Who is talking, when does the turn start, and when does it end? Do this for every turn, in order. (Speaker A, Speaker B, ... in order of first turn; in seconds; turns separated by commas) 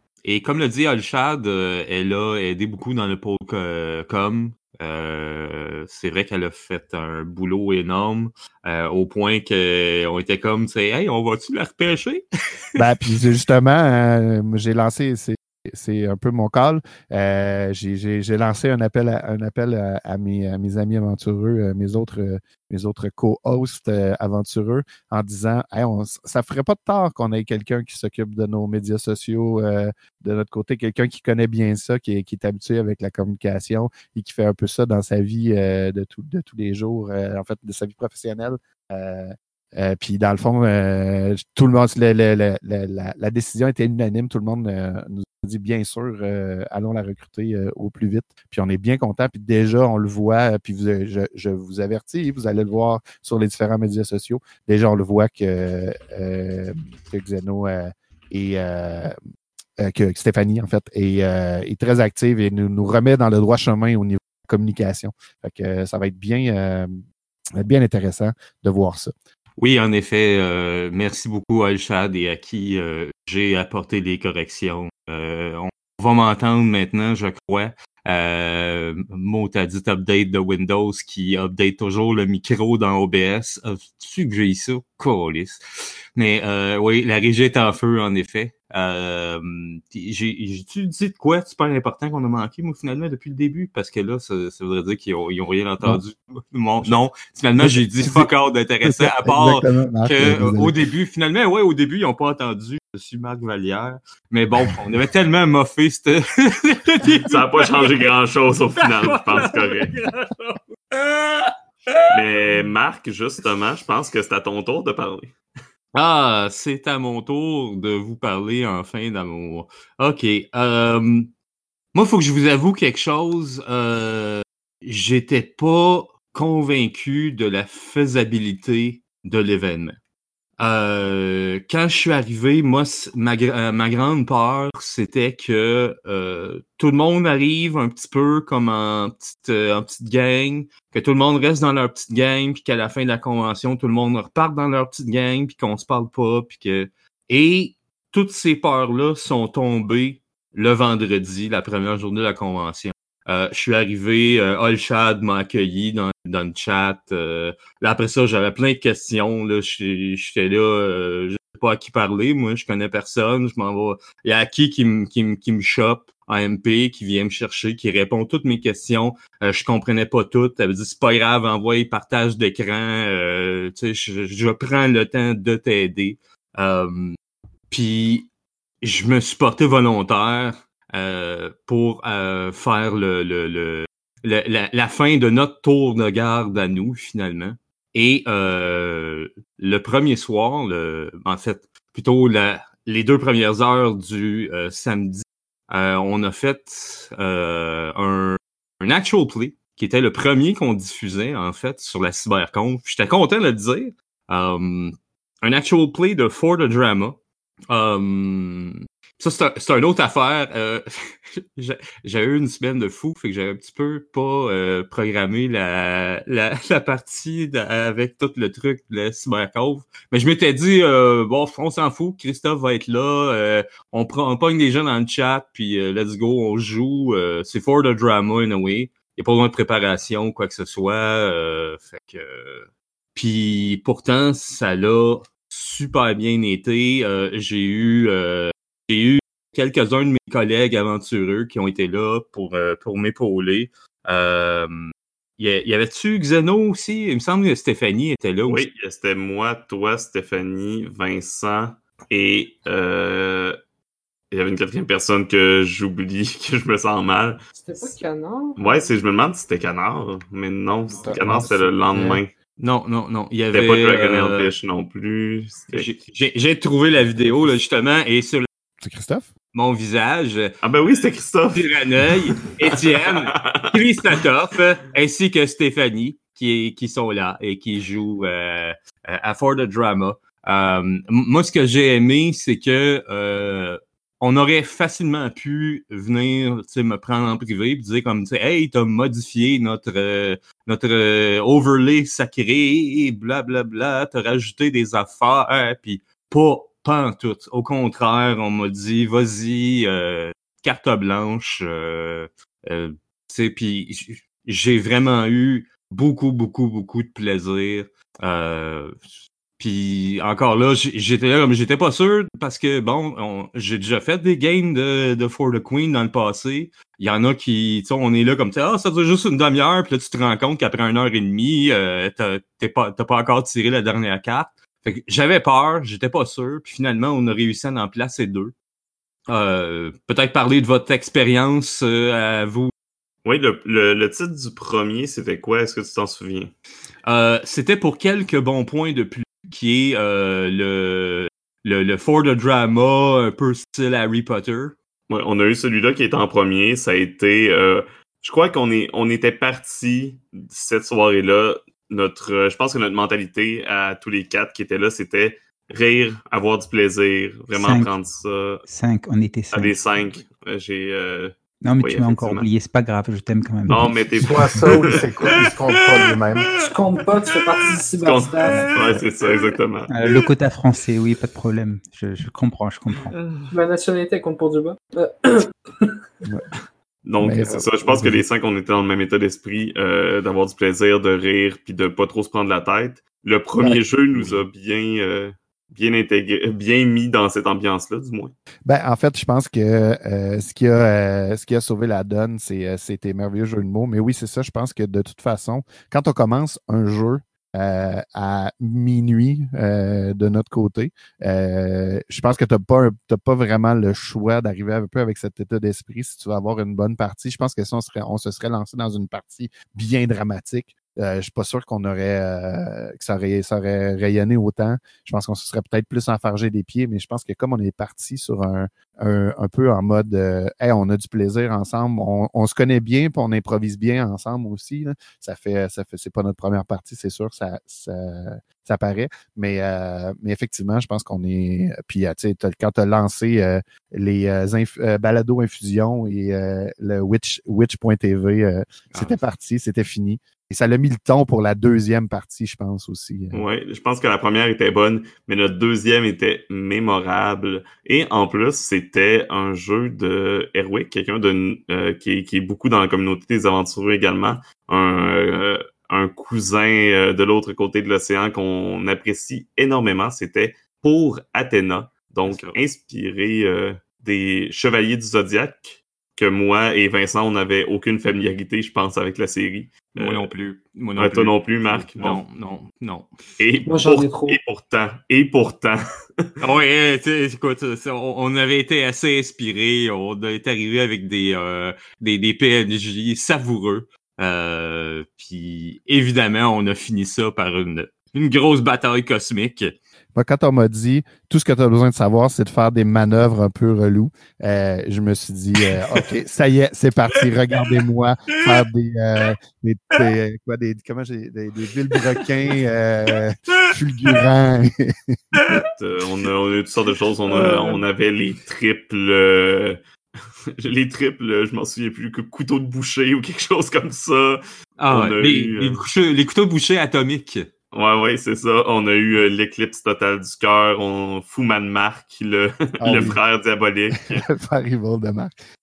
Speaker A: 0.2-12.9, Speaker B: 12.8-59.1, Speaker B: 59.8-67.0, Speaker B: 67.6-69.1, Speaker A: 69.6-85.6, Speaker A: 86.2-108.0, Speaker B: 97.6-98.3, Speaker B: 98.9-100.8, Speaker C: 107.3-109.9, Speaker A: 108.8-112.7, Speaker C: 112.1-115.3, Speaker A: 115.9-121.3, Speaker A: 121.9-130.0, Speaker A: 130.6-177.2, Speaker A: 177.7-178.3, Speaker A: 178.8-207.2, Speaker A: 207.7-248.7, Speaker C: 248.5-253.6, Speaker C: 254.3-257.9, Speaker D: 257.6-258.6, Speaker C: 258.6-262.3, Speaker B: 261.0-262.2, Speaker A: 262.6-264.5, Speaker C: 263.5-265.9, Speaker A: 265.7-268.5, Speaker B: 268.8-269.3, Speaker A: 269.5-270.5, Speaker C: 270.6-273.8, Speaker A: 271.5-309.1, Speaker A: 309.6-328.5, Speaker A: 329.3-332.7, Speaker C: 333.2-336.5, Speaker A: 337.1-344.8, Speaker C: 345.1-358.6, Speaker E: 357.5-358.0, Speaker E: 358.6-359.8, Speaker C: 359.5-362.5, Speaker E: 361.6-363.9, Speaker C: 363.7-365.3, Speaker F: 364.2-366.6, Speaker D: 366.6-368.8, Speaker C: 368.0-369.9, Speaker E: 369.9-373.1, Speaker D: 373.5-375.9, Speaker C: 377.1-388.4, Speaker B: 377.2-378.2, Speaker B: 383.6-384.4, Speaker B: 388.7-443.4, Speaker A: 438.9-439.2, Speaker C: 443.3-470.3, Speaker A: 462.2-462.6, Speaker A: 470.0-473.1, Speaker C: 471.0-472.2, Speaker C: 473.4-476.2, Speaker D: 473.7-474.4, Speaker A: 476.4-489.8, Speaker B: 490.1-505.2, Speaker A: 502.0-502.2, Speaker A: 505.4-505.7, Speaker C: 505.8-509.8, Speaker A: 507.3-507.8, Speaker C: 510.6-515.8, Speaker A: 514.8-517.5, Speaker C: 517.7-524.2, Speaker B: 522.8-523.2, Speaker B: 524.1-525.4